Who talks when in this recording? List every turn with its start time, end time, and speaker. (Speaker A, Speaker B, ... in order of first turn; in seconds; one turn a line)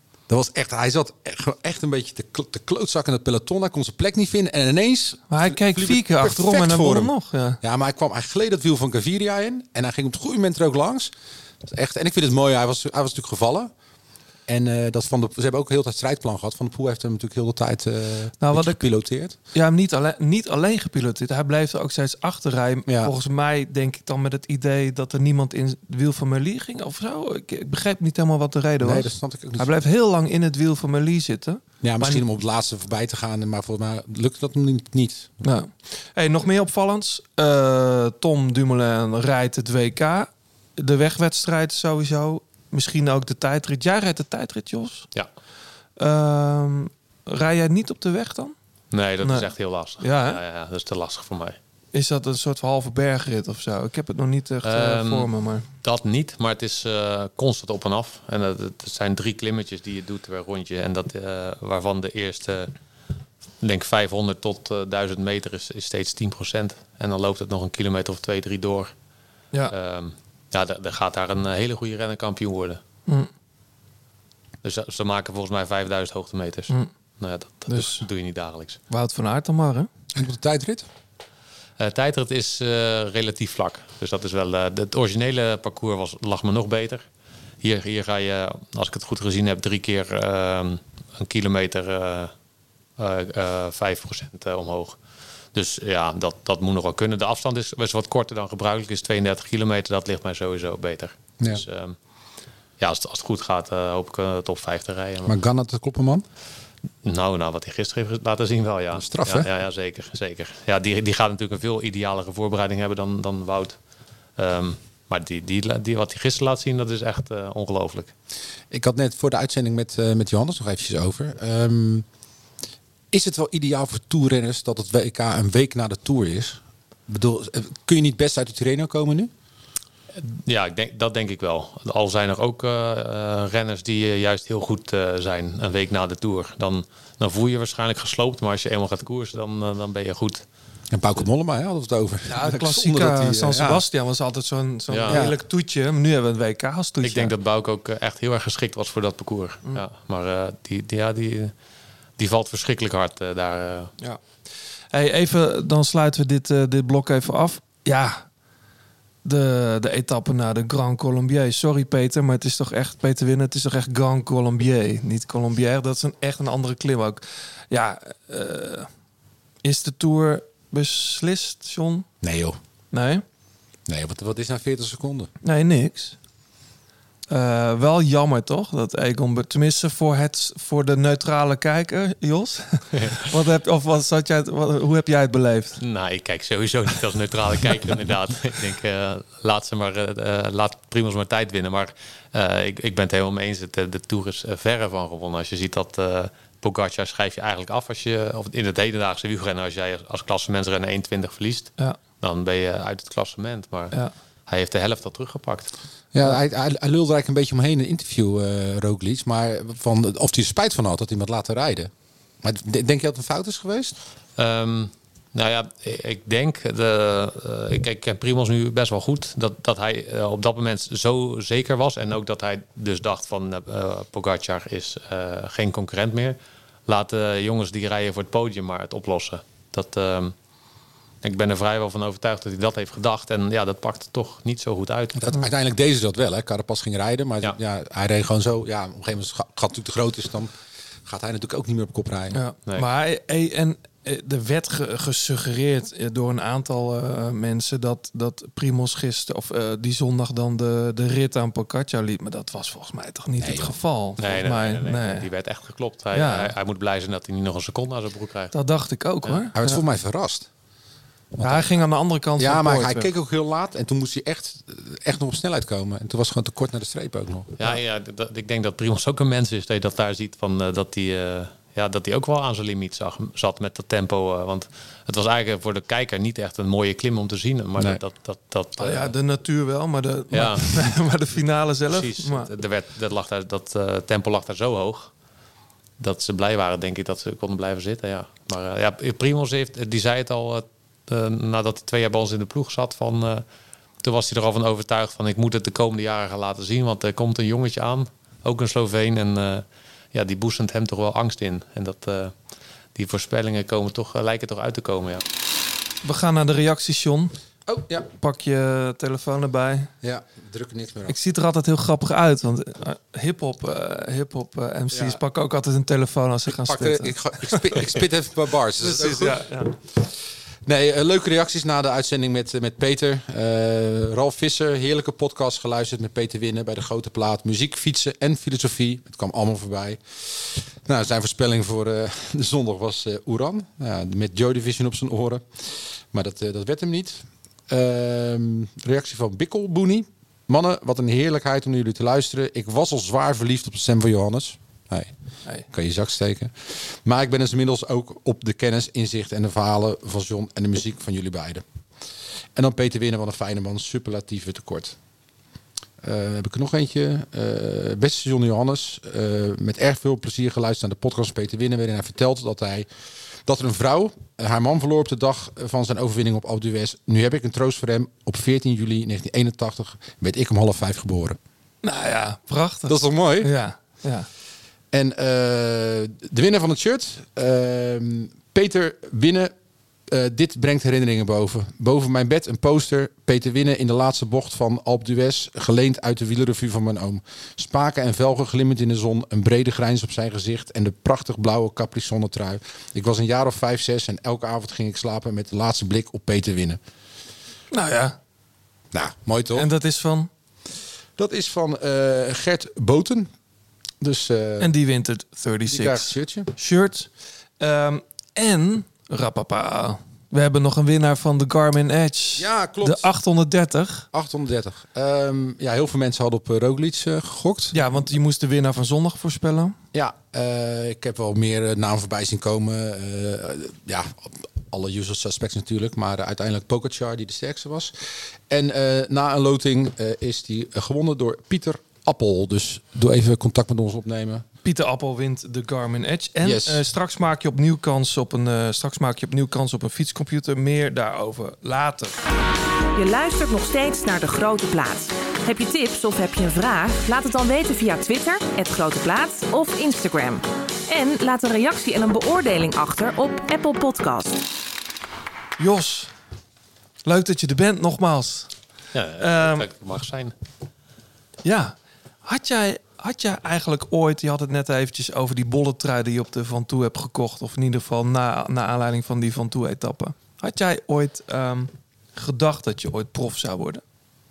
Speaker A: 0.3-13.7
Speaker B: 5.3-7.6
Speaker A: 14.5-19.4
Speaker B: 18.4-32.2
Speaker A: 22.9-23.1
Speaker A: 28.8-29.7
Speaker A: 31.8-35.4
Speaker B: 35.4-45.1
Speaker B: 46.0-48.5
Speaker C: 48.9-51.6
Speaker B: 49.2-50.4
Speaker B: 51.9-55.7
Speaker C: 54.6-55.3
Speaker C: 55.8-62.7
Speaker C: 63.6-68.9
Speaker C: 69.7-72.8
Speaker C: 74.6-78.8
Speaker B: 77.7-78.1
Speaker B: 78.9-79.9
Speaker A: 80.1-80.9
Speaker C: 81.8-87.0
Speaker C: 87.6-92.3
Speaker C: 93.0-95.0
Speaker C: 95.5-102.0
Speaker C: 102.8-105.4
Speaker A: 105.3-106.2
Speaker C: 107.0-113.8
Speaker A: 109.0-109.5
Speaker C: 114.4-118.1
Speaker A: 118.7-122.1
Speaker A: 123.1-129.3
Speaker C: 130.2-140.4
Speaker A: 140.9-143.8
Speaker B: 142.3-147.3
Speaker C: 144.9-145.2
Speaker A: 145.1-145.4
Speaker C: 147.0-151.5
Speaker C: 152.2-153.9
Speaker B: 154.0-158.3
Speaker B: 159.2-168.9
Speaker B: 169.6-172.1
Speaker A: 172.2-172.6
Speaker B: 172.9-173.2
Speaker A: 173.9-175.3
Speaker B: 175.4-176.2
Speaker B: 177.3-185.8
Speaker C: 185.8-205.7
Speaker A: 206.1-211.9
Speaker A: 212.4-214.0
Speaker C: 214.4-230.3
Speaker C: 231.2-235.3
Speaker A: 235.2-240.5
Speaker A: 241.1-242.4
Speaker B: 242.3-255.2
Speaker A: 253.4-253.7
Speaker C: 254.2-258.5
Speaker B: 256.1-256.5
Speaker B: 258.5-259.8
Speaker A: 259.5-260.5
Speaker A: 261.4-261.7
Speaker B: 261.4-263.1
Speaker A: 262.4-267.6
Speaker C: 267.6-279.1
Speaker B: 278.8-282.5
Speaker C: 280.3-280.9
Speaker C: 281.9-285.1
Speaker C: 286.0-293.4
Speaker C: 294.0-302.3
Speaker C: 302.9-305.2
Speaker B: 306.0-309.9
Speaker A: 307.7-308.1
Speaker A: 310.0-311.2
Speaker B: 311.1-317.8
Speaker A: 314.9-315.2
Speaker A: 316.5-345.1
Speaker B: 318.8-319.7
Speaker A: 345.7-351.6
Speaker A: 352.6-355.0
Speaker A: 356.0-362.9
Speaker A: 363.4-371.4
Speaker B: 371.8-374.3
Speaker A: 372.9-373.5
Speaker A: 374.9-379.5
Speaker A: 380.1-396.8
Speaker B: 397.7-398.2
Speaker A: 398.9-399.7
Speaker B: 399.5-400.3
Speaker A: 401.2-403.3
Speaker A: 404.0-404.8
Speaker B: 404.6-414.1
Speaker A: 405.7-406.5
Speaker A: 412.4-413.1
Speaker A: 414.1-417.8
Speaker B: 417.7-419.8
Speaker A: 419.9-434.4
Speaker B: 434.6-442.2
Speaker A: 436.4-436.8
Speaker D: 442.9-454.4
Speaker B: 455.6-456.1
Speaker B: 457.1-458.5
Speaker C: 458.9-460.3
Speaker B: 459.2-459.7
Speaker B: 461.4-473.8